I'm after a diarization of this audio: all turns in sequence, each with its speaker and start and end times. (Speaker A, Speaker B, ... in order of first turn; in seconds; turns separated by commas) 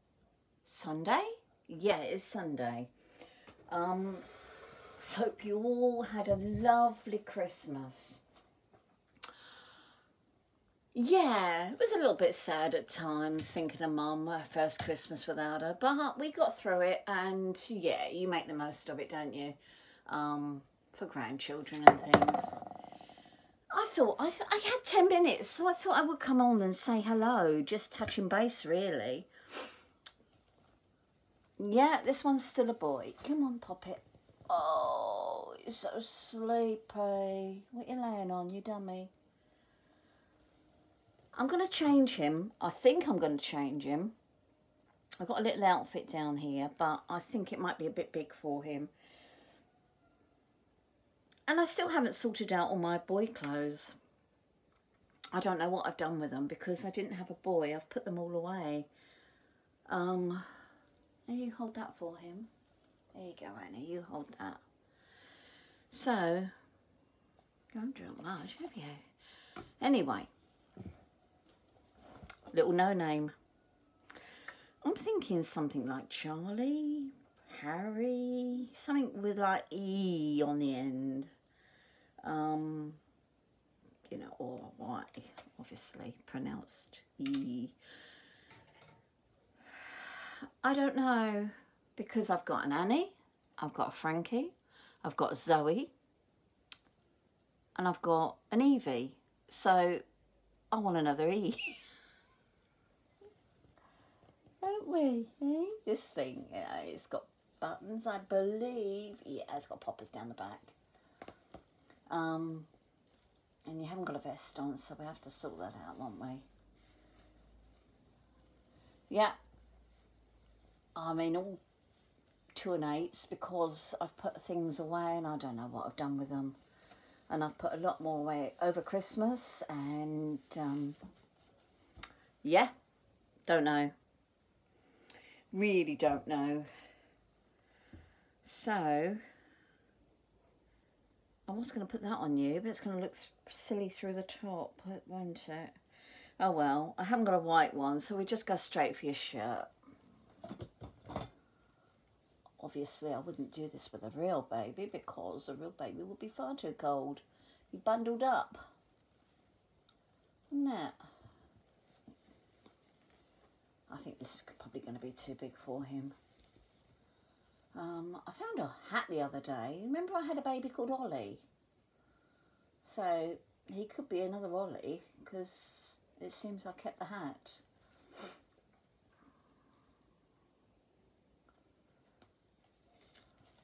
Speaker A: 0.6-2.9, Speaker A: 3.7-4.3, Speaker A: 5.0-8.2, Speaker A: 10.9-22.6, Speaker A: 23.7-29.3, Speaker A: 31.6-39.1, Speaker A: 41.3-44.1, Speaker A: 45.2-48.9, Speaker A: 51.5-54.0, Speaker A: 55.3-58.9, Speaker A: 59.9-60.6, Speaker A: 61.3-62.5, Speaker A: 63.1-64.6, Speaker A: 65.9-66.5, Speaker A: 67.7-69.0, Speaker A: 69.8-70.3, Speaker A: 72.5-73.3, Speaker A: 74.8-81.3, Speaker A: 82.2-83.0, Speaker A: 84.1-87.8, Speaker A: 89.8-95.9, Speaker A: 97.8-100.0, Speaker A: 100.7-101.8, Speaker A: 104.6-110.8, Speaker A: 112.1-112.7, Speaker A: 113.7-116.5, Speaker A: 119.1-119.4, Speaker A: 121.0-121.6, Speaker A: 122.5-126.6, Speaker A: 127.3-131.0, Speaker A: 132.4-132.7, Speaker A: 133.5-133.9, Speaker A: 135.5-136.7, Speaker A: 138.4-139.2, Speaker A: 141.5-145.8, Speaker A: 146.4-149.7, Speaker A: 152.6-158.6, Speaker A: 160.5-161.0, Speaker A: 163.9-166.2, Speaker A: 167.7-171.4, Speaker A: 172.8-177.6